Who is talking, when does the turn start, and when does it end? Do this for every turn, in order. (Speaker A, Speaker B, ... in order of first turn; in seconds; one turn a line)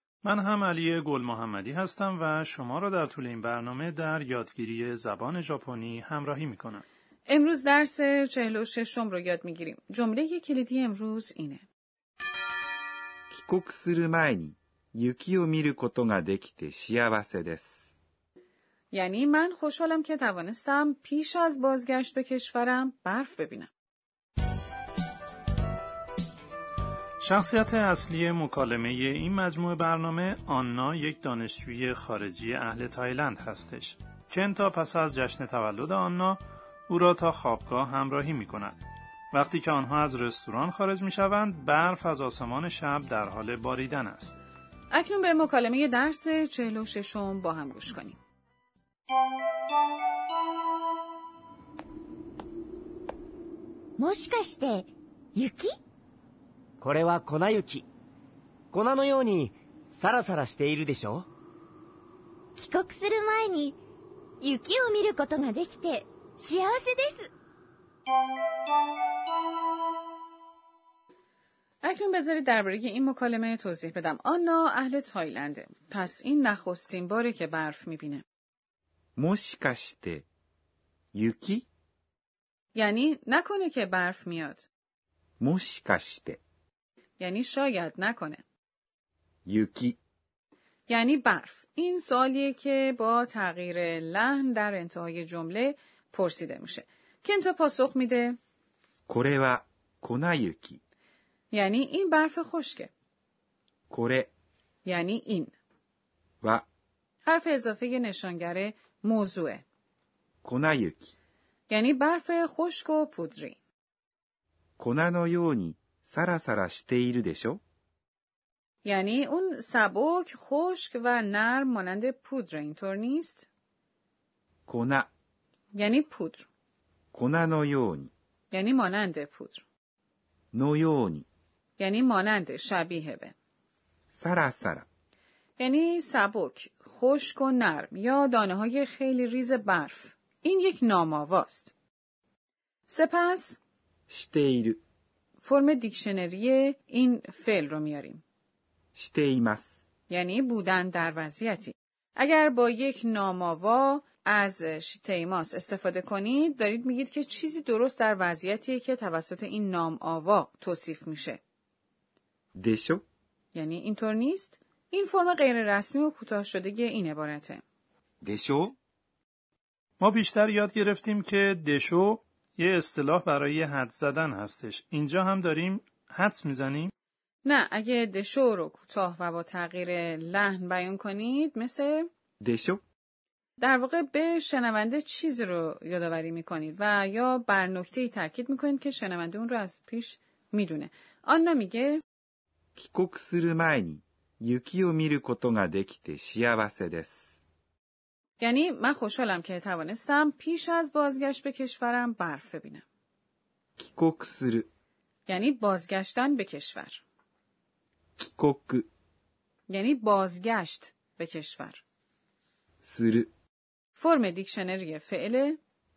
Speaker A: 0.2-6.8
Speaker B: 7.3-11.6
Speaker C: 13.3-17.9
Speaker B: 18.9-23.7
Speaker A: 27.2-38.7
Speaker A: 39.3-44.4
Speaker B: 44.9-48.2
Speaker D: 54.0-55.7
Speaker E: 56.8-57.9
Speaker E: 58.7-61.3
Speaker D: 62.6-63.8
Speaker D: 64.4-67.3
Speaker B: 71.8-78.2
Speaker C: 79.2-80.3
Speaker C: 81.1-81.7
Speaker B: 82.7-84.7
Speaker C: 85.4-86.4
Speaker B: 87.2-88.4
Speaker C: 89.5-90.0
Speaker B: 90.9-98.4
Speaker C: 99.1-100.8
Speaker B: 101.5-102.9
Speaker C: 103.9-104.3
Speaker B: 104.8-105.5
Speaker B: 107.2-109.6
Speaker C: 110.4-111.1
Speaker B: 111.7-113.6
Speaker C: 114.8-117.6
Speaker B: 118.8-123.5
Speaker C: 124.7-125.1
Speaker B: 125.7-126.5
Speaker C: 127.1-128.1
Speaker B: 128.5-129.6
Speaker C: 130.5-131.2
Speaker B: 131.8-133.3
Speaker C: 134.1-134.8
Speaker B: 135.6-141.7
Speaker B: 142.9-143.6
Speaker C: 144.1-144.8
Speaker B: 145.4-148.2
Speaker C: 148.9-149.8
Speaker B: 150.1-161.4
Speaker C: 162.6-163.0
Speaker B: 163.5-167.6
Speaker C: 168.2-168.8
Speaker A: 170.0-176.9
Speaker B: 177.4-182.1
Speaker C: 182.4-182.8
Speaker B: 183.6-192.0
Speaker C: 192.8-197.3
Speaker B: 198.4-202.8
Speaker C: 203.8-204.7
Speaker B: 205.3-207.0
Speaker C: 208.2-208.9
Speaker B: 209.7-211.8
Speaker C: 212.8-213.3
Speaker B: 213.9-215.6